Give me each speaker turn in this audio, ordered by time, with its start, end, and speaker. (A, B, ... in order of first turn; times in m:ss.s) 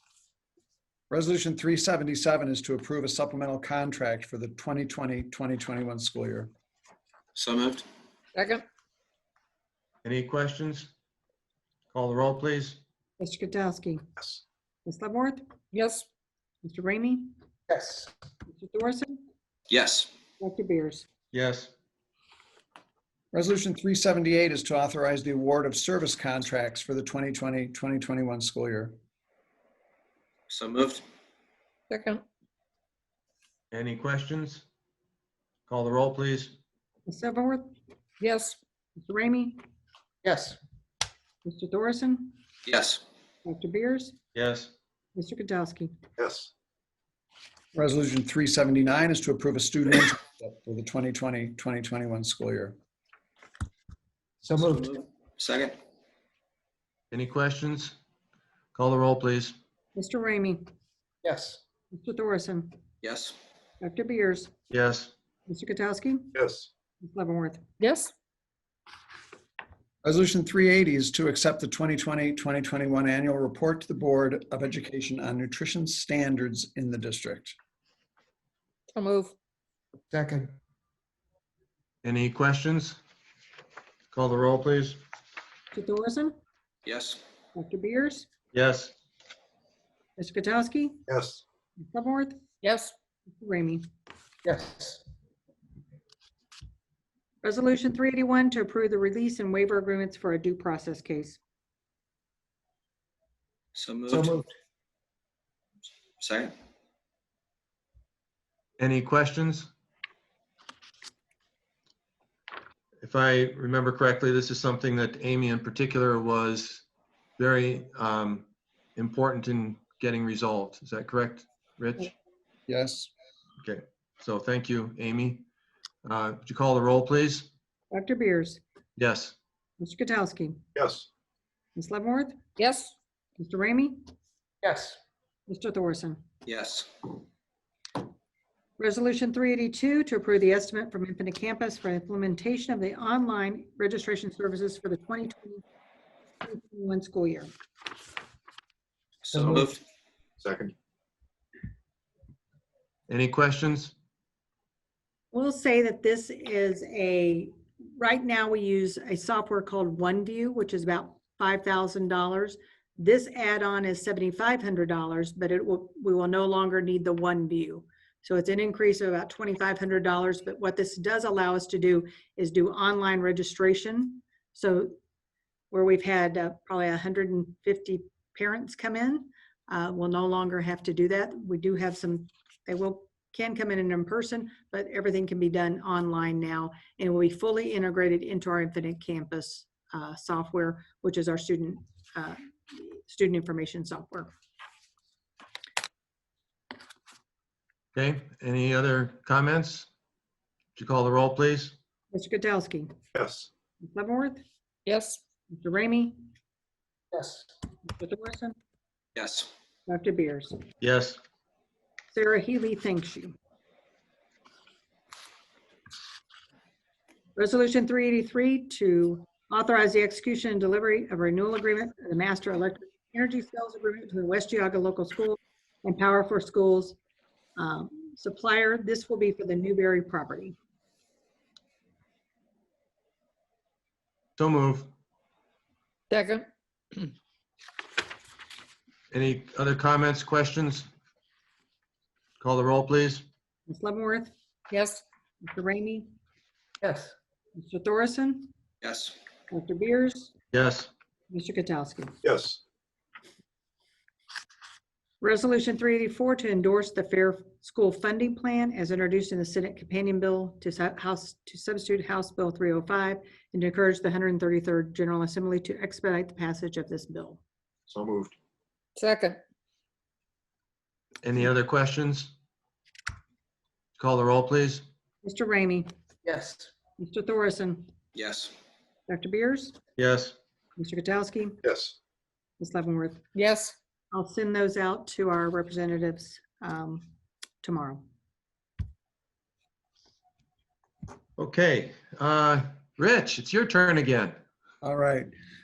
0:01.1-0:06.5 A
0:07.3-0:07.8 B
0:08.3-0:08.6 C
0:10.0-0:10.9 D
0:11.9-0:12.8 D
0:13.2-0:14.1 E
0:14.8-0:15.4 E
0:15.7-0:16.0 C
0:16.6-0:17.3 E
0:17.7-0:18.1 F
0:18.5-0:19.2 E
0:19.7-0:20.1 B
0:20.4-0:21.1 E
0:21.3-0:21.7 D
0:23.3-0:29.0 A
0:30.5-0:31.0 B
0:31.9-0:32.2 C
0:33.7-0:34.6 D
0:35.7-0:36.6 D
0:37.1-0:37.7 E
0:38.2-0:38.6 C
0:39.0-0:39.6 E
0:40.2-0:40.5 F
0:41.4-0:42.3 E
0:42.6-0:43.0 B
0:43.4-0:44.2 E
0:44.3-0:44.7 D
0:45.1-0:45.9 E
0:46.2-0:46.5 G
0:47.7-0:52.7 A
0:54.4-0:54.8 F
0:54.6-0:55.8 B
0:57.1-0:57.9 D
0:58.7-0:59.6 D
0:59.9-1:00.6 E
1:01.2-1:01.6 F
1:01.9-1:02.7 E
1:03.0-1:03.4 B
1:03.8-1:04.5 E
1:04.7-1:05.1 D
1:05.5-1:06.3 E
1:06.3-1:06.7 G
1:07.0-1:07.6 E
1:07.8-1:08.1 C
1:10.0-1:17.6 A
1:18.9-1:19.3 C
1:20.1-1:20.5 F
1:22.0-1:23.0 D
1:24.1-1:25.0 D
1:25.7-1:26.3 E
1:26.8-1:27.2 B
1:27.5-1:28.3 E
1:28.5-1:28.9 D
1:30.2-1:31.0 E
1:31.1-1:31.4 G
1:31.8-1:32.4 E
1:32.6-1:32.9 C
1:33.4-1:33.8 E
1:34.4-1:35.0 F
1:37.4-1:41.4 E
1:43.7-1:44.4 B
1:44.1-1:44.5 F
1:46.2-1:46.5 B
1:48.8-1:49.7 D
1:53.0-1:56.8 D
1:57.4-2:02.1 D
2:02.7-2:03.1 A
2:03.6-2:05.4 D
2:06.0-2:07.5 D
2:07.9-2:08.6 E
2:09.0-2:09.3 D
2:09.8-2:10.6 E
2:10.8-2:11.1 G
2:11.8-2:12.4 E
2:12.6-2:12.9 C
2:13.4-2:14.0 E
2:14.6-2:15.0 F
2:15.5-2:16.2 E
2:16.4-2:17.0 B
2:18.8-2:25.6 E
2:26.4-2:27.5 E
2:29.2-2:29.8 B
2:29.3-2:29.7 F
2:30.4-2:30.7 G
2:33.1-2:33.9 D
2:35.3-2:54.9 E
2:55.7-3:14.3 E
3:17.9-3:19.9 D
3:20.8-3:21.7 D
3:22.1-3:22.9 E
3:23.1-3:23.5 G
3:23.8-3:24.4 E
3:24.8-3:25.2 C
3:25.5-3:26.2 E
3:27.1-3:27.4 F
3:27.9-3:28.5 E
3:29.2-3:29.5 B
3:29.9-3:30.6 E
3:30.8-3:31.2 D
3:32.1-3:33.3 E
3:37.4-3:47.0 E
3:47.6-3:50.6 E
3:54.4-3:54.9 D
3:56.1-3:57.1 C
3:59.1-4:00.9 D
4:02.4-4:03.2 D
4:03.7-4:04.3 E
4:04.7-4:05.0 C
4:05.4-4:06.1 E
4:06.8-4:07.1 F
4:07.5-4:08.5 E
4:08.8-4:09.2 B
4:09.5-4:10.3 E
4:10.5-4:10.9 D
4:11.3-4:12.1 E
4:12.2-4:12.6 G
4:15.2-4:27.4 E
4:27.9-4:28.3 G
4:29.0-4:29.4 C
4:31.2-4:32.3 D
4:34.0-4:34.8 D
4:35.2-4:35.9 E
4:36.2-4:36.7 F
4:37.0-4:37.9 E
4:38.1-4:38.5 B
4:39.1-4:39.8 E
4:40.0-4:40.4 D
4:40.8-4:41.6 E
4:41.6-4:42.0 G
4:42.6-4:43.2 E
4:43.3-4:43.7 C
4:44.1-4:47.0 E
4:47.6-4:48.0 E
4:51.4-4:54.4 D
4:54.8-4:55.3 A